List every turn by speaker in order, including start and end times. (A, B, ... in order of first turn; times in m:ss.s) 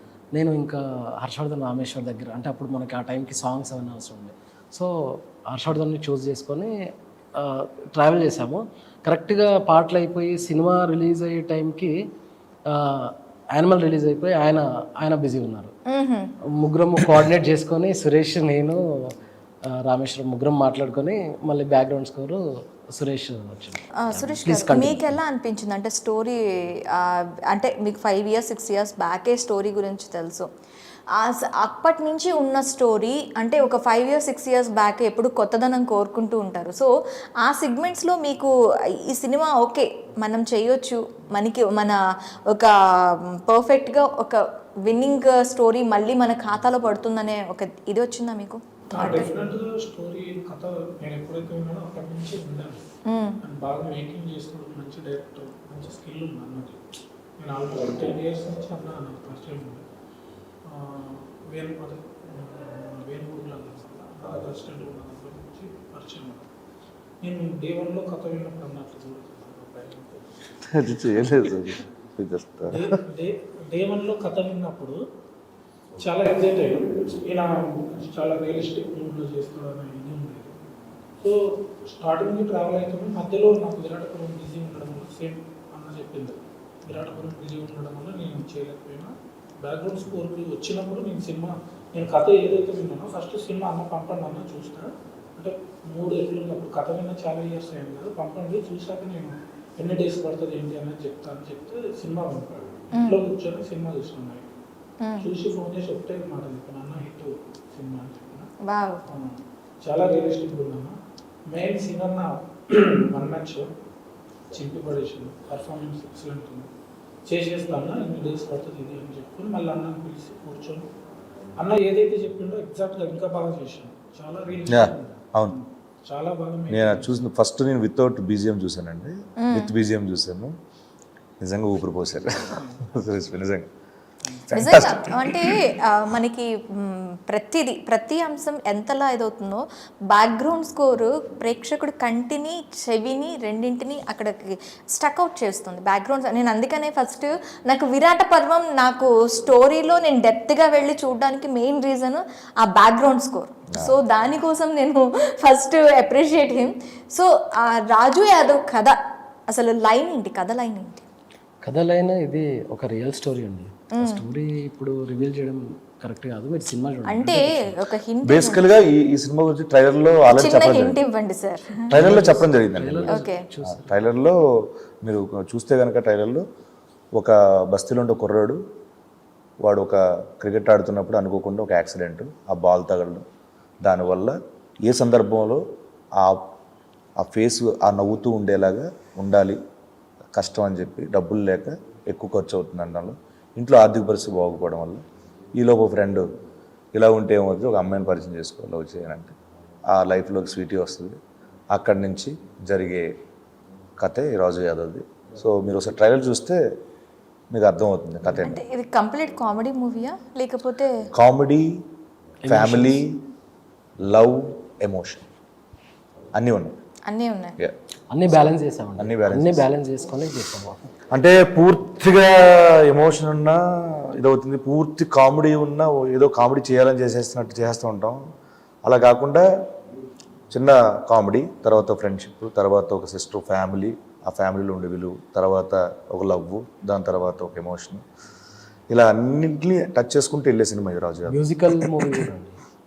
0:00.3-0:06.8 A
0:07.4-0:12.0 A
0:12.7-0:15.7 A
0:15.9-0:16.3 B
0:16.5-0:19.1 A
0:19.6-0:25.2 A
0:24.0-0:30.5 B
0:31.1-0:38.5 B
0:39.0-0:49.3 B
0:48.9-0:52.8 C
0:53.1-0:53.4 B
0:53.4-0:56.8 C
0:57.4-0:59.9 C
1:00.6-1:06.5 C
1:07.2-1:11.7 C
1:10.7-1:13.0 D
1:12.7-1:15.0 C
1:16.0-1:20.5 C
1:21.2-1:44.5 C
1:43.0-1:43.2 B
1:45.0-1:45.3 B
1:45.2-1:48.5 C
1:48.6-1:49.0 B
1:49.1-1:51.0 C
1:51.5-1:53.7 C
1:54.5-1:56.7 C
1:57.3-2:00.9 C
2:01.6-2:07.2 C
2:04.7-2:05.6 D
2:06.7-2:10.6 D
2:09.4-2:09.7 B
2:11.4-2:13.7 D
2:12.6-2:13.0 C
2:14.2-2:14.7 C
2:14.5-2:15.6 D
2:14.5-2:39.0 B
2:33.7-2:34.0 D
2:39.5-2:41.0 B
2:41.6-2:47.8 A
2:43.9-2:44.3 B
2:47.1-2:48.6 B
2:48.2-2:51.0 D
2:50.3-2:51.9 B
2:51.9-2:56.4 D
2:51.9-2:54.0 A
2:53.1-2:53.4 B
2:57.2-2:58.6 D
2:59.6-3:03.2 D
3:03.8-3:05.6 D
3:06.2-3:06.5 D
3:07.2-3:09.6 D
3:10.3-3:15.0 D
3:15.6-3:16.2 D
3:17.0-3:19.3 D
3:19.9-3:21.2 D
3:21.7-3:23.1 D
3:24.0-3:26.6 D
3:27.5-3:28.6 D
3:28.4-3:31.1 B
3:31.1-3:31.7 D
3:32.5-3:33.0 A
3:32.5-3:33.2 D
3:34.0-3:35.3 D
3:36.4-3:36.7 D
3:37.1-3:37.6 B
3:38.1-3:40.8 A
3:38.3-3:39.6 D
3:41.1-3:48.2 D
3:48.9-3:49.4 D
3:50.5-3:58.0 D
3:58.9-4:01.4 D
4:01.3-4:02.6 A